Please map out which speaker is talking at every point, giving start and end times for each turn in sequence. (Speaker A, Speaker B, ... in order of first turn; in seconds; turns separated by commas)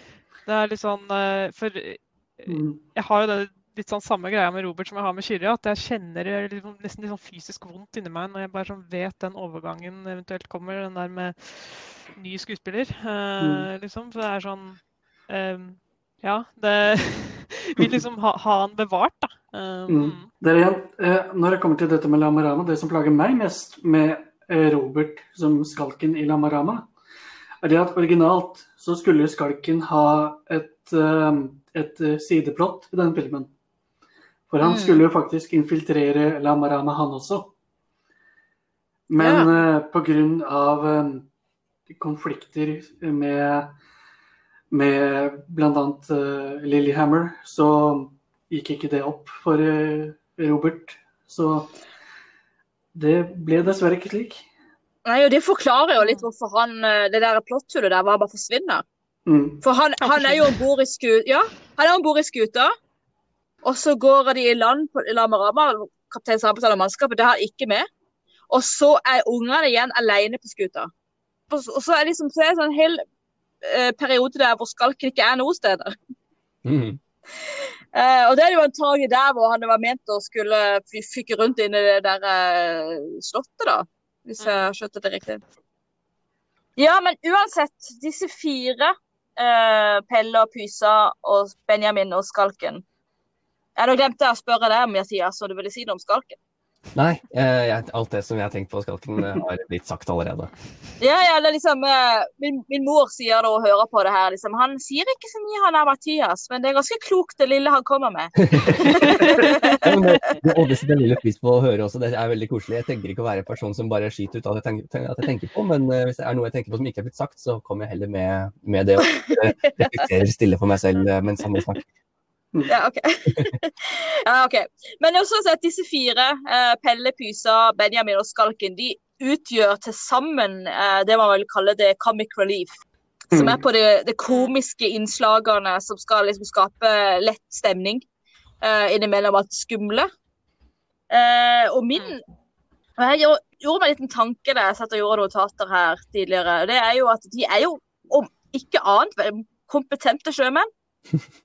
Speaker A: 0.5-20.3, Speaker B: 2.5-2.8, Speaker B: 13.4-13.7, Speaker B: 19.9-26.9, Speaker B: 27.6-33.5, Speaker B: 34.5-37.5, Speaker C: 34.6-35.0, Speaker B: 39.1-41.3, Speaker C: 39.2-39.5, Speaker B: 41.9-43.8, Speaker B: 44.7-51.8, Speaker B: 52.9-54.5, Speaker C: 55.0-58.8, Speaker A: 56.0-56.2, Speaker B: 59.3-59.6, Speaker C: 59.6-62.7, Speaker A: 60.0-60.6, Speaker C: 63.6-67.9, Speaker C: 68.5-70.9, Speaker C: 71.5-73.0, Speaker C: 73.6-76.0, Speaker D: 76.7-77.0, Speaker C: 77.4-85.4, Speaker A: 84.4-84.7, Speaker C: 86.8-92.8, Speaker C: 93.8-96.4, Speaker D: 97.0-100.5, Speaker C: 101.0-110.0, Speaker A: 108.9-109.9, Speaker B: 109.2-109.5, Speaker D: 109.8-121.8, Speaker C: 119.1-119.4, Speaker C: 122.7-132.8, Speaker B: 133.3-133.6, Speaker C: 133.3-138.1, Speaker C: 138.6-140.1, Speaker C: 141.1-142.2, Speaker C: 143.0-150.7